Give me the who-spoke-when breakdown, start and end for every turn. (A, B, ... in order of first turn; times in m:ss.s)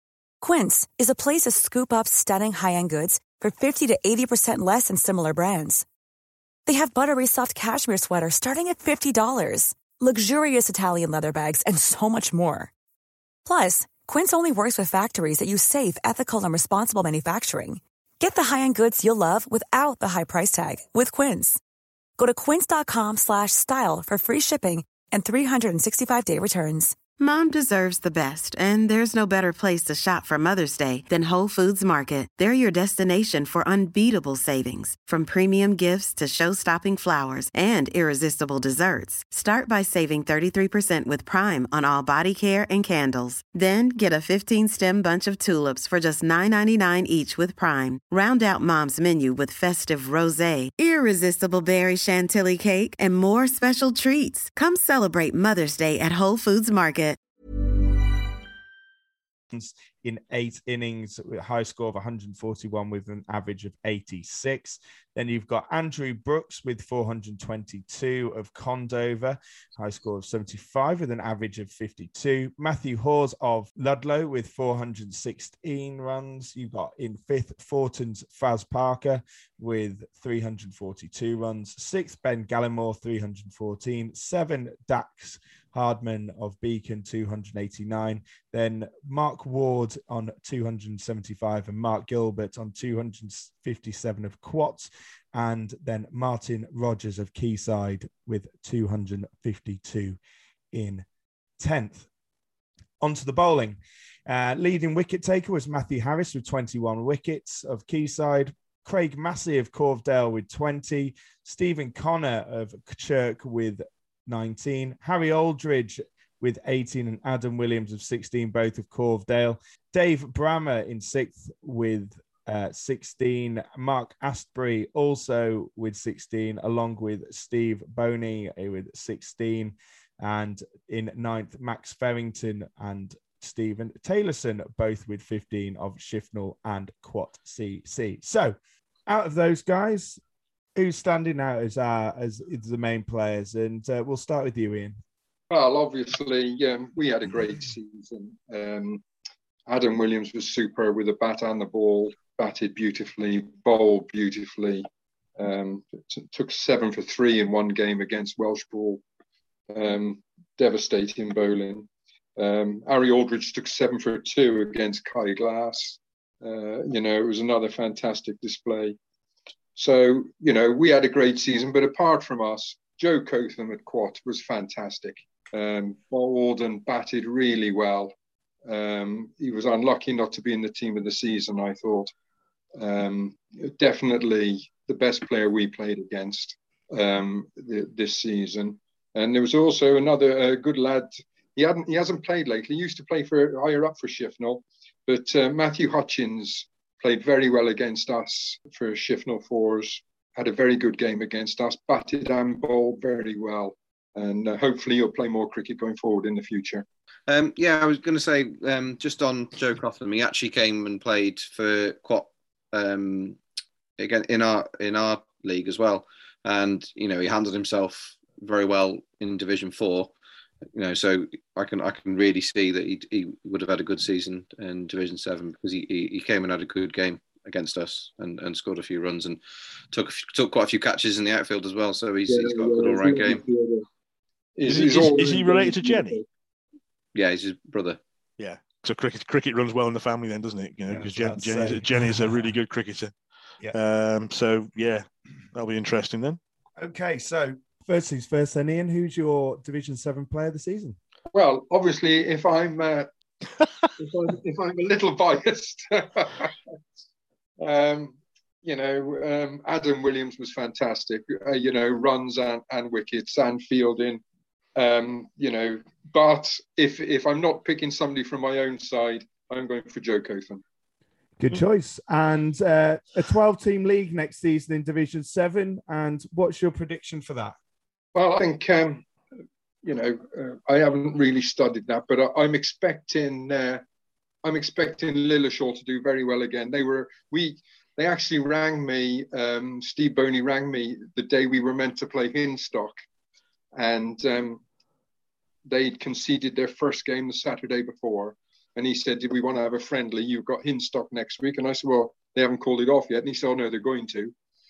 0:00.4-0:05.8 A
0:06.7-0:12.7 A
0:13.4-0:21.6 A
0:22.2-0:27.0 A
0:27.2-0:57.2 B
0:59.5-1:40.2 C
1:40.7-1:41.1 C
1:41.6-1:42.1 C
1:43.0-2:18.6 C
2:19.1-2:20.2 C
2:20.8-2:25.0 C
2:25.5-2:29.0 D
2:29.7-2:34.9 D
2:35.4-2:39.0 D
2:39.7-2:49.0 D
2:49.8-2:58.1 D
2:58.7-3:02.1 D
3:02.8-3:26.8 D
3:27.3-3:33.4 E
3:34.0-3:40.1 E
3:40.8-3:49.4 E
3:49.9-3:53.4 E
3:52.3-3:53.9 D
3:54.6-3:56.2 D
3:54.7-3:56.2 F
3:57.2-3:58.0 E
3:58.4-4:03.1 F
4:00.9-4:02.5 C
4:03.7-4:06.4 F
4:06.8-4:11.0 C
4:11.3-4:13.1 D
4:14.0-4:16.5 D
4:17.6-4:24.2 D
4:24.8-4:30.6 D
4:31.4-4:37.6 C
4:38.2-4:39.0 D
4:39.8-4:43.8 D
4:44.4-4:53.0 D
4:53.8-4:54.6 D
4:55.7-5:04.3 D